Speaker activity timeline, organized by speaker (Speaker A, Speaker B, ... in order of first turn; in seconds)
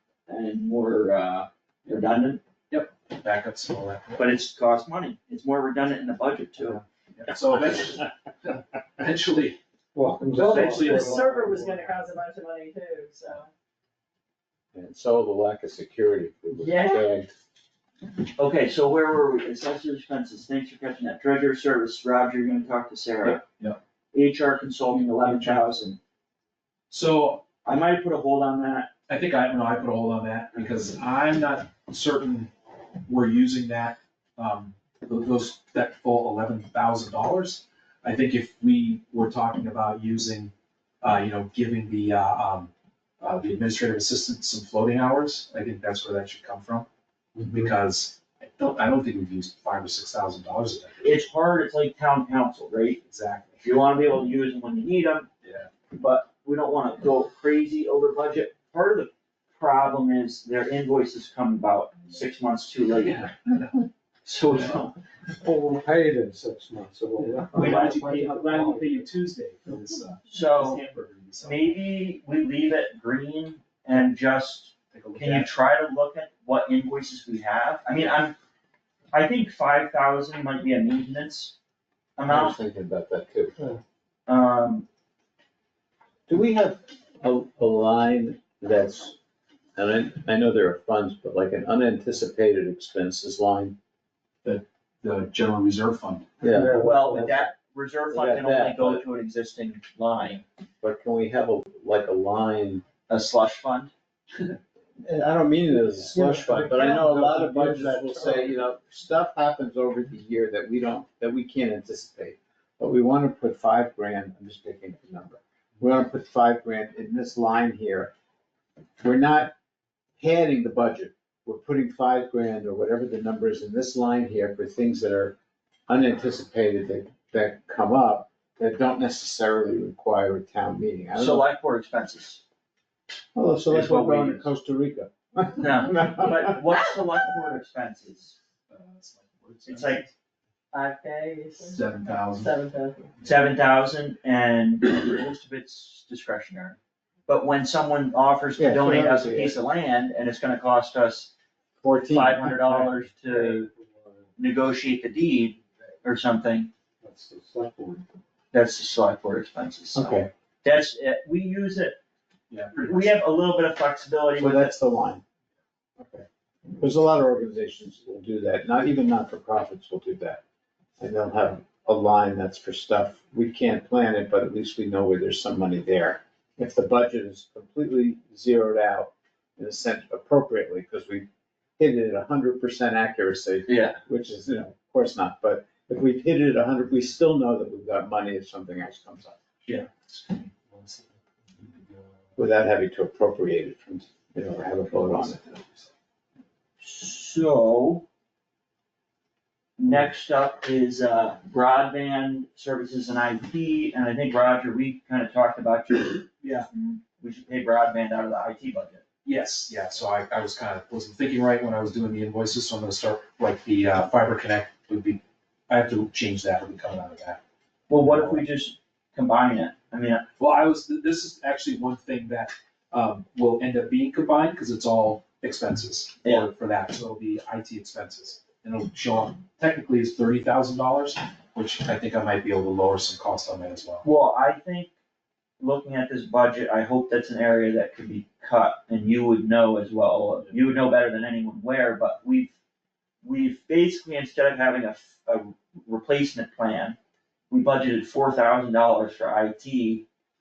Speaker A: 0.3-2.4, 4.2-6.8, 10.5-11.0, 18.4-23.4, 24.1-26.0, 27.6-28.9, 51.0-53.0, 53.6-55.3, 55.9-63.4, 64.2-65.0, 67.5-68.0, 70.3-70.8, 71.4-78.4, 79.1-81.5, 82.2-82.6, 84.3-84.9, 96.7-100.4, 103.1-103.9, 131.2-132.4, 133.7-134.5, 135.6-138.4, 139.6-140.1, 143.2-151.3, 152.1-153.7, 154.4-156.7, 158.5-162.0, 162.8-164.8, 183.7-184.0, 196.8-198.0, 199.8-209.0, 217.9-220.2, 226.2-226.5, 234.0-234.9, 235.6-242.5, 243.2-247.0, 247.5-250.0
Speaker B: 2.7-4.2, 6.6-9.6, 10.3-12.0, 23.2-23.8, 25.1-25.7, 26.9-27.4, 29.1-32.5, 33.0-51.2, 53.0-53.6, 55.4-55.7, 63.0-63.8, 64.5-64.8, 67.2-71.8, 74.9-75.5, 94.4-96.3, 138.7-140.1, 141.6-142.5, 162.5-163.2, 189.6-192.1, 194.8-195.9, 206.4-206.7, 209.2-217.4, 217.9-218.4, 220.4-234.0
Speaker C: 9.9-11.3, 65.4-69.1, 96.5-97.4, 106.2-108.6, 153.3-154.2, 157.0-158.0
Speaker D: 10.7-13.5, 16.6-17.1, 140.7-143.1
Speaker E: 14.7-17.3, 82.3-83.5, 86.3-89.2, 89.8-93.8, 96.4-97.3, 98.1-99.0, 100.8-102.8, 105.0-118.1, 119.0-119.5, 120.2-125.4, 125.9-131.4, 133.3-136.6, 148.6-149.6, 151.8-153.0, 159.9-160.3, 164.4-165.2, 166.0-170.4, 171.0-181.2, 181.8-189.4, 192.4-195.4